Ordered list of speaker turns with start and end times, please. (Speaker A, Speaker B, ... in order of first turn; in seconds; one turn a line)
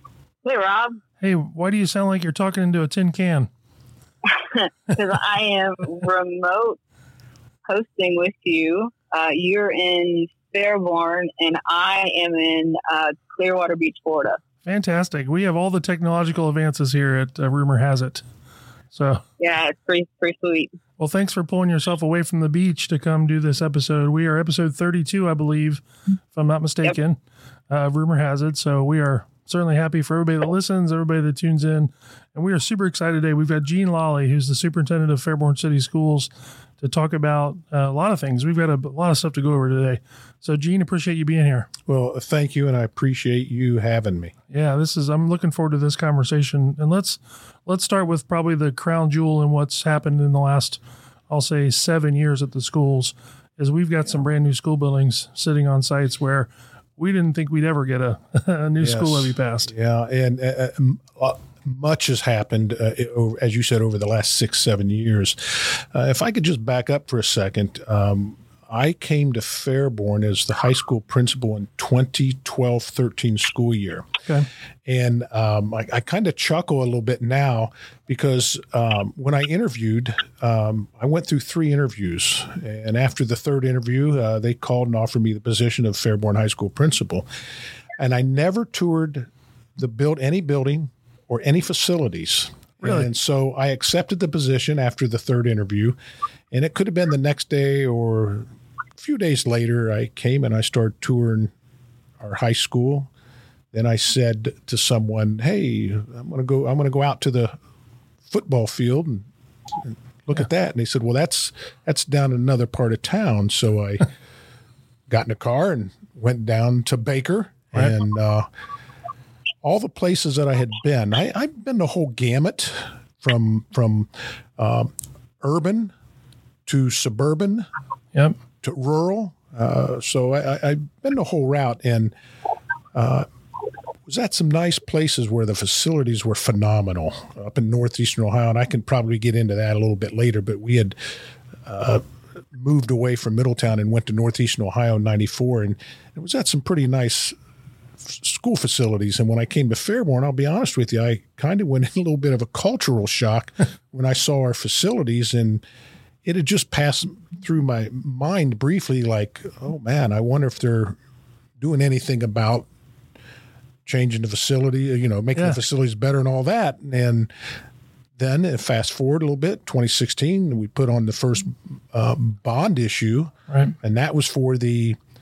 Speaker A: 0.4-1.0
Speaker B: 1.2-3.5
Speaker A: 4.3-6.8
Speaker A: 7.7-14.4
Speaker B: 14.6-18.2
Speaker B: 18.9-19.2
Speaker A: 19.4-20.7
Speaker B: 21.0-27.2
Speaker B: 27.7-41.7
Speaker C: 41.9-44.3
Speaker B: 44.5-59.7
Speaker C: 58.8-74.1
Speaker C: 74.8-87.3
Speaker C: 88.0-96.0
Speaker B: 92.8-93.1
Speaker C: 96.5-101.5
Speaker C: 102.2-103.1
Speaker C: 103.7-107.6
Speaker C: 108.3-109.3
Speaker C: 109.8-114.1
Speaker C: 115.1-118.5
Speaker C: 119.6-125.9
Speaker C: 126.7-127.7
Speaker C: 128.6-132.1
Speaker C: 132.9-133.3
Speaker C: 134.1-141.1
Speaker C: 141.7-147.3
Speaker C: 148.0-155.6
Speaker C: 156.2-161.0
Speaker C: 161.6-162.7
Speaker C: 163.8-167.3
Speaker C: 168.2-175.0
Speaker B: 173.5-173.7